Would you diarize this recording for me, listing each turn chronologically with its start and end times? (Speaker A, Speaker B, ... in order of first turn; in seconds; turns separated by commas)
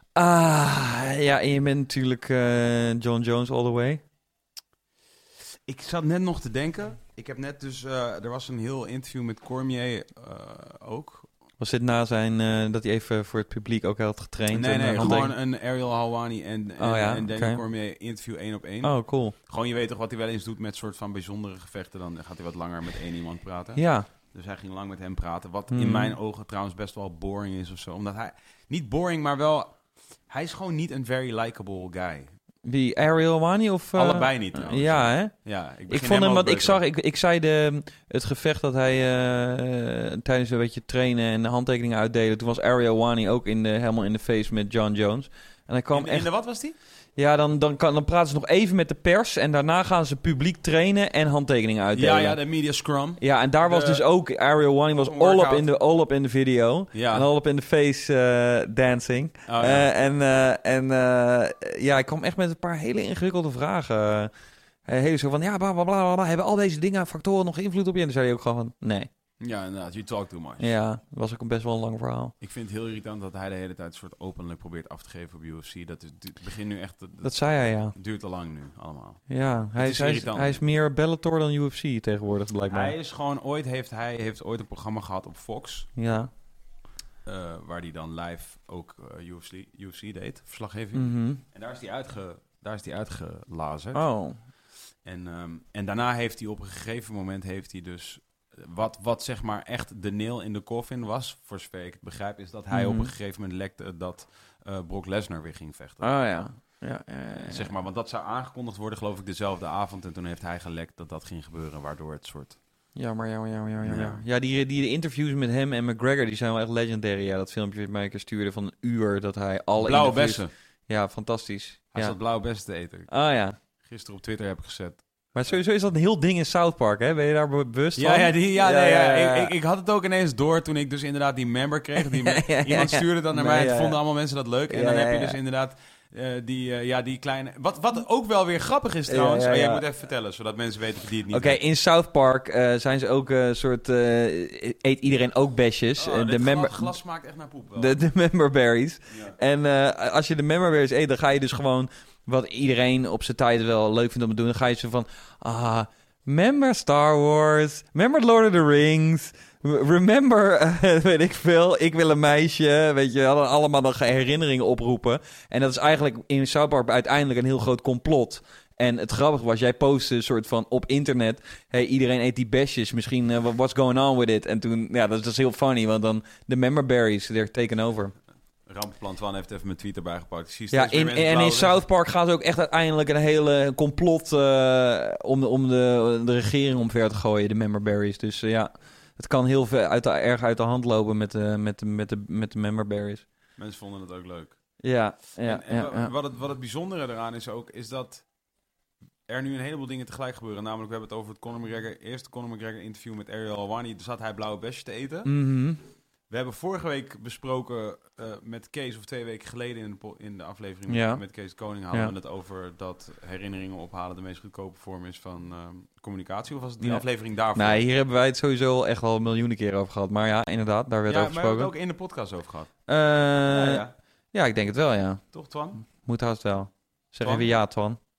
Speaker A: 0.1-4.0, Speaker B: 5.7-11.3, Speaker A: 11.6-15.3, Speaker B: 14.5-32.3, Speaker A: 16.8-17.6, Speaker A: 18.8-19.3, Speaker A: 23.8-24.1, Speaker A: 25.7-26.1, Speaker A: 32.6-46.6, Speaker B: 33.9-36.8, Speaker B: 45.9-46.8, Speaker A: 47.1-64.3, Speaker B: 51.9-54.0, Speaker B: 54.9-55.6, Speaker B: 56.9-57.2, Speaker B: 59.5-59.9, Speaker A: 64.8-69.1, Speaker B: 69.4-70.8, Speaker A: 70.6-72.3, Speaker B: 72.4-80.6, Speaker A: 77.2-78.0, Speaker A: 79.3-82.9, Speaker B: 82.7-85.9, Speaker A: 86.0-86.3, Speaker B: 87.2-94.4, Speaker A: 90.9-91.4, Speaker A: 93.9-94.4, Speaker B: 95.0-106.8, Speaker A: 102.7-103.1, Speaker A: 106.0-107.7, Speaker B: 107.5-112.6, Speaker A: 112.9-122.5, Speaker B: 113.8-114.2, Speaker B: 119.8-120.5, Speaker B: 121.9-125.6, Speaker A: 123.1-123.6, Speaker A: 125.3-129.5, Speaker B: 128.0-141.6, Speaker A: 132.1-135.4, Speaker A: 139.1-139.8, Speaker A: 141.3-146.9, Speaker B: 146.0-148.0, Speaker A: 147.8-178.1, Speaker B: 149.1-149.3, Speaker B: 178.7-181.8, Speaker A: 180.7-193.2, Speaker B: 193.6-194.8, Speaker A: 194.8-196.1, Speaker B: 195.4-198.3, Speaker B: 199.3-205.4, Speaker A: 205.2-205.8, Speaker B: 206.3-217.8, Speaker A: 210.9-212.1, Speaker A: 216.8-221.7, Speaker B: 221.1-222.9, Speaker A: 222.9-228.0, Speaker B: 223.4-223.9, Speaker B: 225.3-225.8, Speaker B: 227.2-227.6